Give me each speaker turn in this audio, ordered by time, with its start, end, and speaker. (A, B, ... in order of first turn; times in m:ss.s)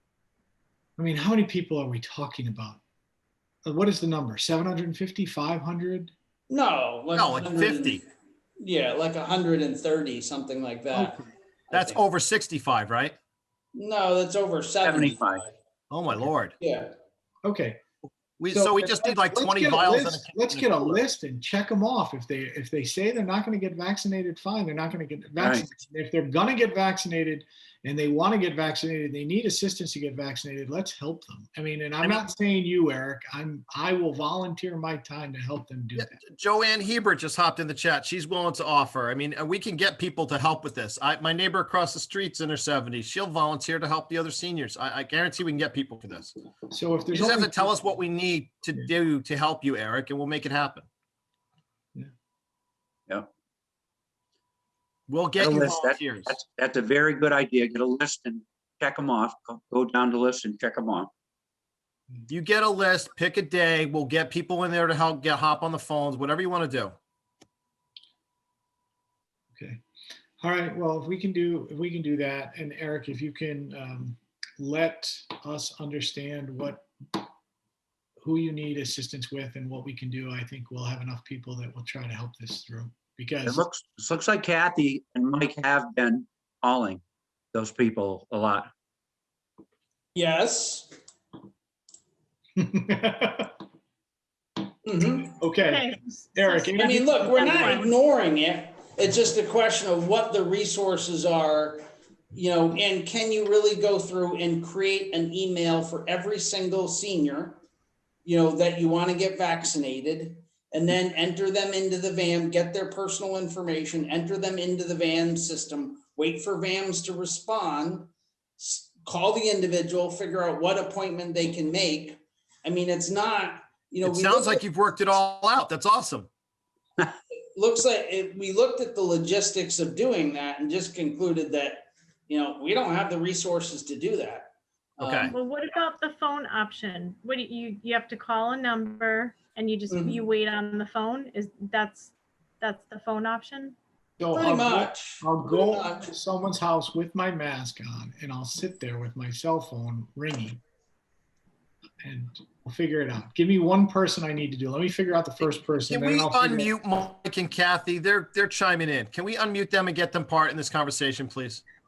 0:01.0-0:02.8 A
0:03.6-0:06.1 A
0:06.5-0:08.0 B
0:07.1-0:08.0 C
0:08.6-0:11.2 B
0:11.7-0:13.2 C
0:13.7-0:15.5 B
0:14.8-0:15.4 D
0:15.9-0:16.5 C
0:16.6-0:16.9 B
0:17.4-0:17.8 A
0:18.4-0:21.0 C
0:18.5-0:36.2 A
0:25.4-0:25.6 D
0:36.0-0:46.3 C
0:46.7-0:47.7 A
0:47.1-0:50.9 C
0:55.1-0:56.4 C
0:55.4-1:01.1 D
1:02.3-1:06.9 C
1:09.5-1:09.8 A
1:10.4-1:16.9 A
1:18.2-1:23.6 A
1:23.4-1:27.0 D
1:27.5-1:28.7 D
1:32.6-1:33.5 A
1:34.9-1:35.3 B
1:35.2-1:37.8 A
1:35.6-1:36.8 E
1:36.8-1:41.8 B
1:37.4-1:38.0 E
1:42.4-1:47.6 B
1:48.2-1:58.0 B
1:58.6-2:02.1 B
2:02.6-2:04.6 B
2:04.0-2:06.3 C
2:07.6-2:14.4 B
2:15.0-2:15.3 C
2:15.3-2:23.8 E
2:24.2-2:30.6 A
2:24.4-2:26.1 B
2:32.0-2:36.7 A
2:35.9-2:41.6 C